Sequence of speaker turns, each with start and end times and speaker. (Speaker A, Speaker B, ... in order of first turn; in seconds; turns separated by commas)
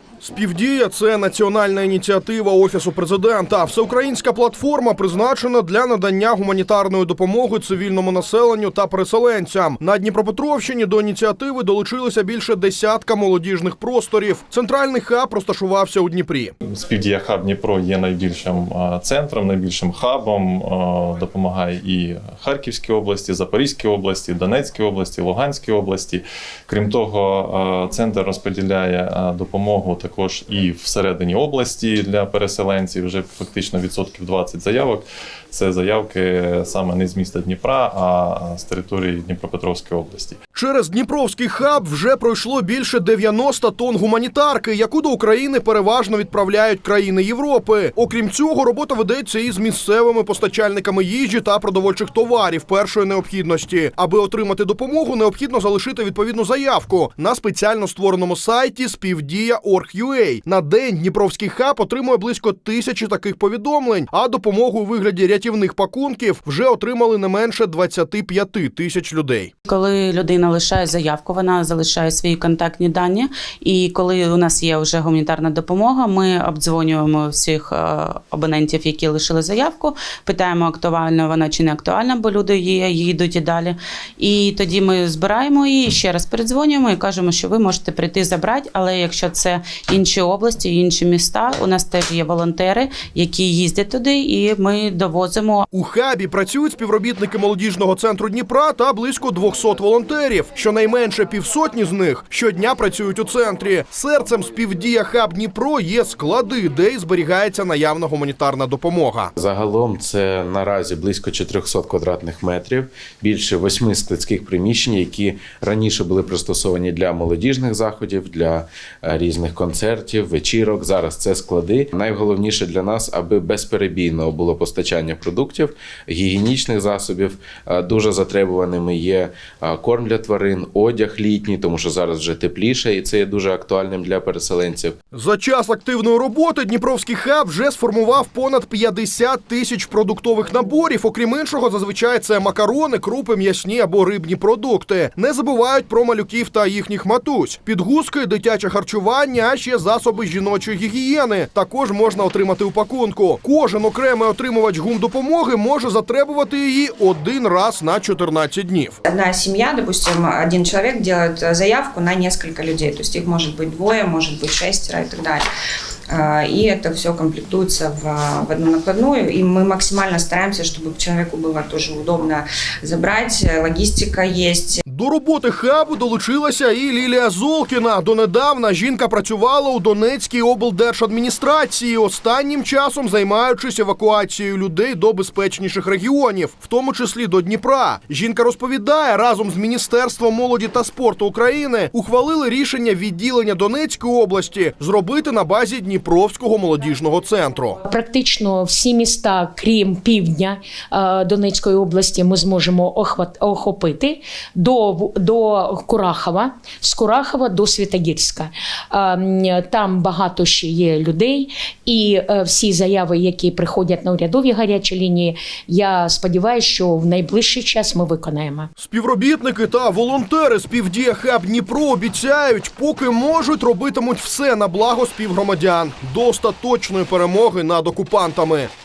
Speaker A: 0.2-16.5, Speaker B: 16.6-40.4, Speaker A: 40.5-69.5, Speaker C: 69.7-95.6, Speaker A: 95.7-109.3, Speaker D: 109.4-135.0, Speaker A: 135.1-159.0, Speaker E: 159.1-165.4, Speaker E: 166.1-174.8, Speaker A: 174.8-197.8, Speaker F: 197.9-218.7, Speaker A: 218.8-228.7